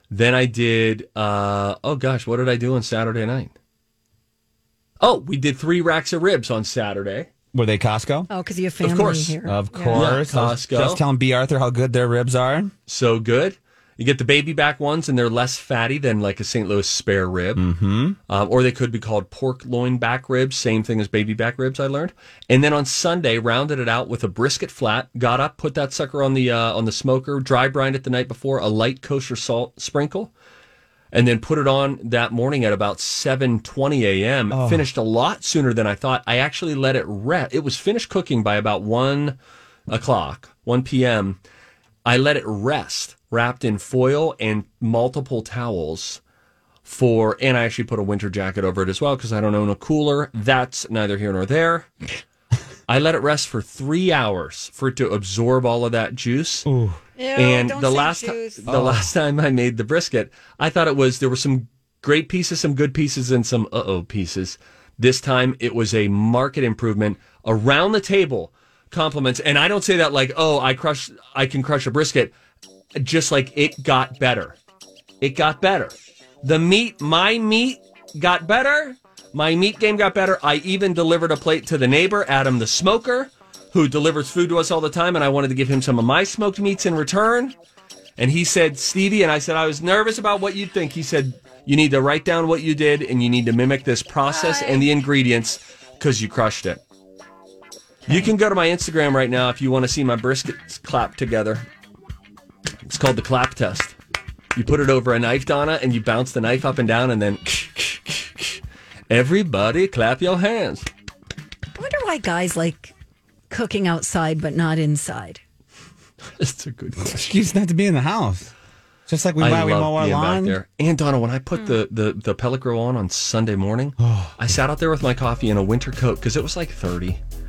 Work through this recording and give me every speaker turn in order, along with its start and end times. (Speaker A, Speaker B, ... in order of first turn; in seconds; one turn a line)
Speaker A: 0.1-3.5
Speaker A: 5.0-7.3
Speaker B: 7.5-8.3
Speaker C: 8.3-10.2
Speaker A: 8.8-9.4
Speaker B: 9.4-12.7
Speaker A: 9.9-11.0
Speaker A: 12.9-17.6
Speaker B: 17.6-18.1
Speaker A: 18.3-30.3
Speaker A: 31.1-39.4
Speaker B: 34.5-34.9
Speaker A: 39.9-41.4
Speaker A: 42.0-46.2
Speaker A: 46.8-51.9
Speaker A: 52.9-56.6
Speaker B: 56.6-57.0
Speaker C: 57.2-58.6
Speaker A: 57.4-72.3
Speaker B: 58.7-59.1
Speaker A: 73.0-74.6
Speaker A: 75.2-87.5
Speaker A: 88.2-96.8
Speaker C: 94.3-94.8
Speaker A: 98.1-101.6
Speaker A: 102.8-103.9
Speaker A: 104.5-110.9
Speaker C: 111.7-112.9
Speaker C: 113.5-115.4
Speaker A: 116.4-117.3
Speaker B: 117.0-118.5
Speaker B: 119.1-120.6
Speaker A: 119.4-127.2
Speaker B: 124.0-124.3